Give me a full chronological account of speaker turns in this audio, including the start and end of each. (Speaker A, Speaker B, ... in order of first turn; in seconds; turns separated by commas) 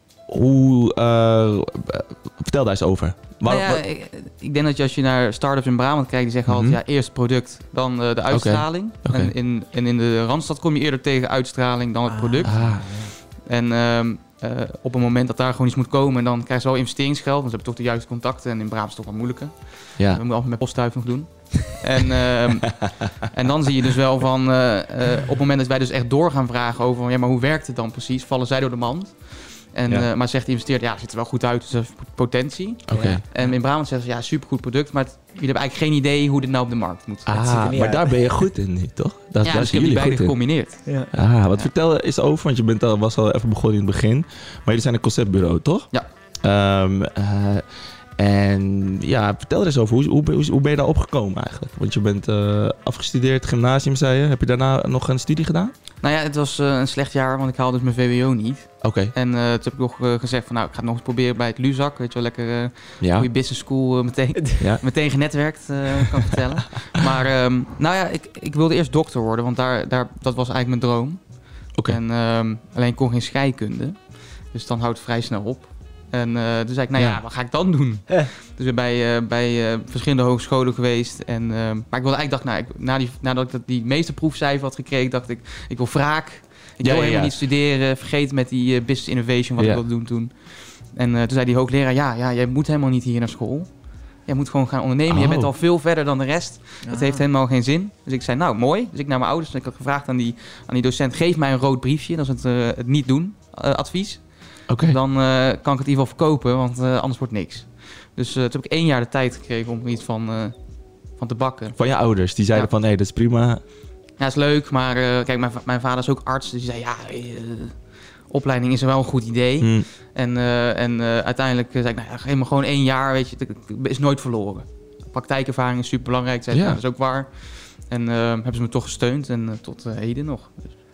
Speaker A: 0.3-3.8, Speaker B: 3.5-12.6, Speaker A: 6.5-6.8, Speaker A: 8.3-9.3, Speaker C: 12.1-13.1, Speaker A: 12.4-12.8, Speaker B: 13.4-37.8, Speaker A: 20.0-20.2, Speaker A: 32.9-33.2, Speaker C: 32.9-33.5, Speaker A: 37.3-40.4, Speaker C: 37.6-38.3, Speaker B: 39.4-40.8, Speaker C: 40.9-41.1, Speaker A: 41.1-45.9, Speaker A: 46.4-47.6, Speaker A: 48.2-55.7, Speaker B: 56.0-93.7, Speaker A: 58.8-59.1, Speaker A: 63.0-63.3, Speaker A: 77.0-77.2, Speaker A: 86.8-87.4, Speaker B: 94.2-110.6, Speaker A: 95.1-95.5, Speaker C: 96.8-97.2, Speaker A: 104.7-105.0, Speaker B: 111.1-111.8, Speaker A: 111.8-113.6, Speaker B: 114.2-130.6, Speaker A: 119.6-119.9, Speaker A: 126.5-126.8